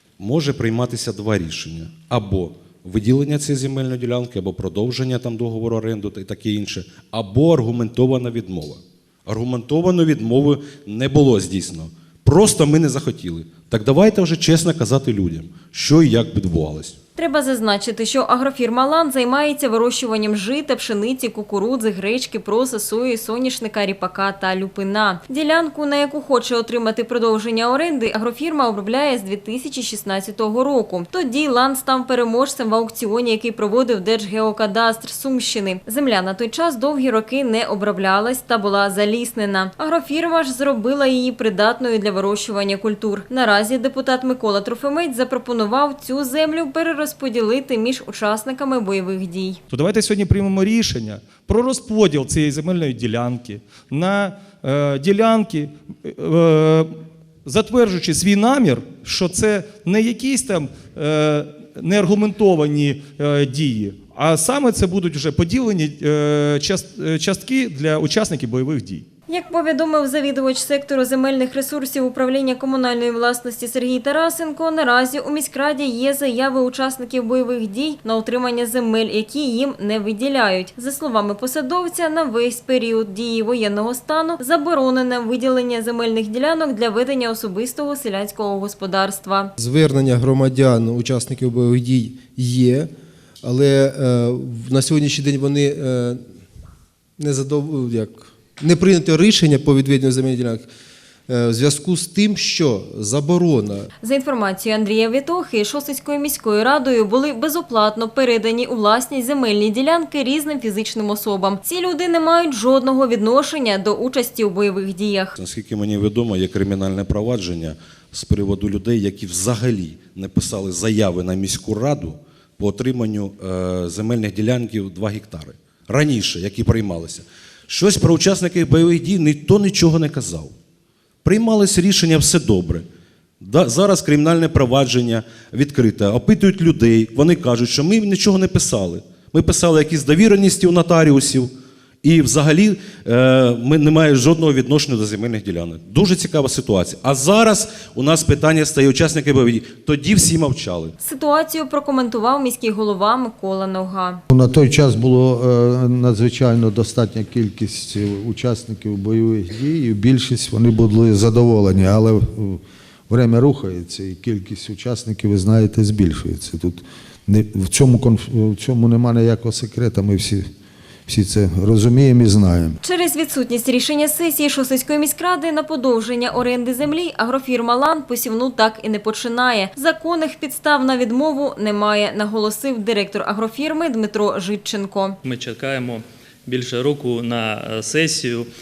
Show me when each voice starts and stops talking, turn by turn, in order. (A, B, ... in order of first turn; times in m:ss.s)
0:00.2-0:17.0 A
0:17.2-0:49.6 B
0:49.7-0:56.9 C
0:57.4-1:09.1 C
1:09.3-1:29.5 B
1:29.6-1:32.9 D
1:33.4-1:36.2 D
1:37.2-1:40.7 D
1:41.3-1:43.9 D
1:44.0-1:55.4 B
1:55.4-2:10.5 A
2:11.2-2:12.9 A
2:13.4-2:21.5 A
2:22.0-2:30.9 A
2:31.0-2:34.2 B
2:34.3-2:50.4 E
2:51.1-2:52.8 E
2:52.8-3:05.2 B
3:05.2-3:08.5 F